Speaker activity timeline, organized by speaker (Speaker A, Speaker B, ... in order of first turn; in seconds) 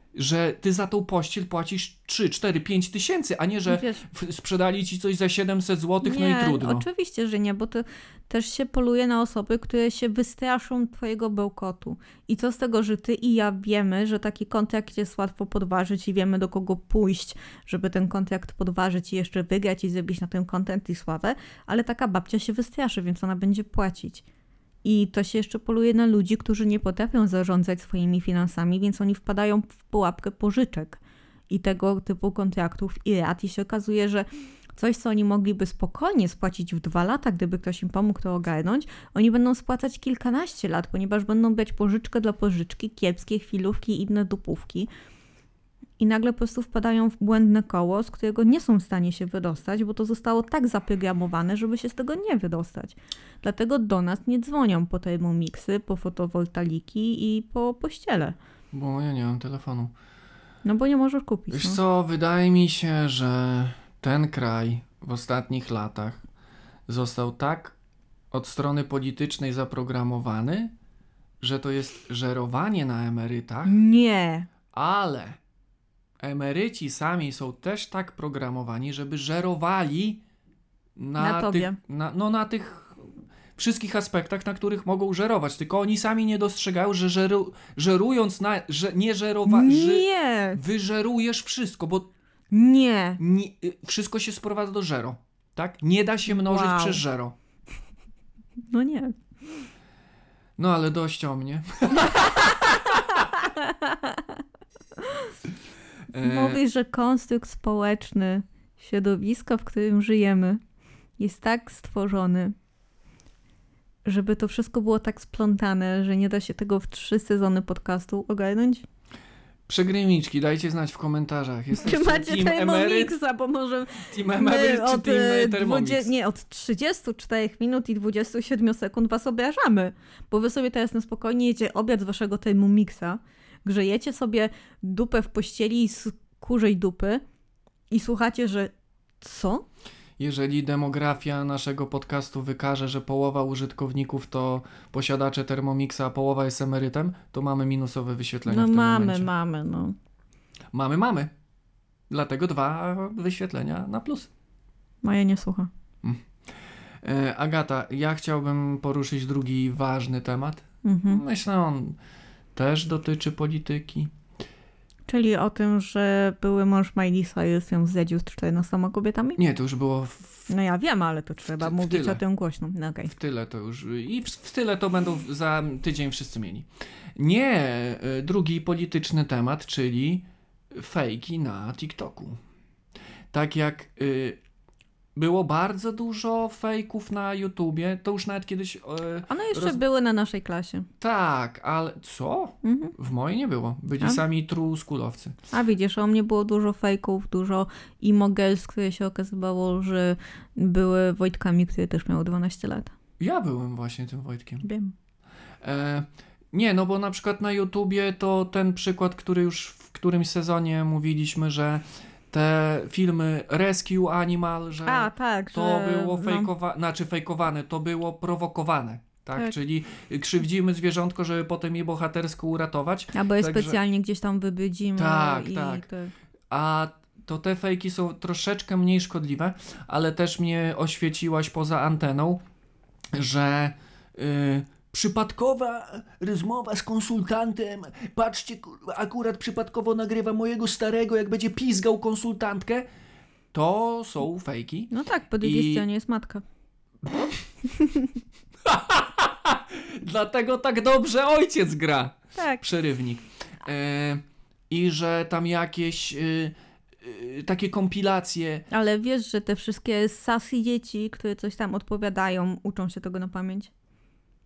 Speaker A: 0.1-6.8, 58.7-59.9, 61.5-66.2, 66.9-67.8, 68.3-70.7, 71.4-73.7, 74.7-75.4, 76.2-80.2, 81.0-83.0, 83.6-92.1, 93.2-97.3, 100.6-103.2, 106.1-106.6, 119.7-123.2, 124.1-126.1, 140.2-149.3, 150.7-151.3, 152.1-154.3, 157.0-162.0, 162.5-164.1, 169.4-170.5, 171.6-172.2, 173.1-182.4, 183.3-184.4, 185.1-189.8, 191.0-195.3, 203.2-204.6, 205.6-223.8, 225.0-225.9, 226.5-232.4, 233.1-242.9, 243.5-245.8, 248.6-258.6
Speaker B: 3.7-4.0, 6.0-24.2, 24.8-44.9, 46.0-58.4, 60.6-61.8, 73.7-74.5, 81.2-81.8, 89.5-90.6, 92.5-93.2, 96.3-97.0, 98.7-99.2, 102.1-104.4, 105.0-105.3, 106.2-110.6, 111.2-112.5, 114.0-118.8, 121.7-137.2, 137.9-139.7, 148.5-149.9, 155.0-155.7, 160.8-161.2, 165.1-169.4, 170.5-173.1, 189.3-190.9, 192.6-192.9, 195.5-202.9, 204.6-204.9, 214.8-216.5, 223.1-226.1, 244.9-246.4, 247.7-248.1, 252.3-252.6, 258.7-263.7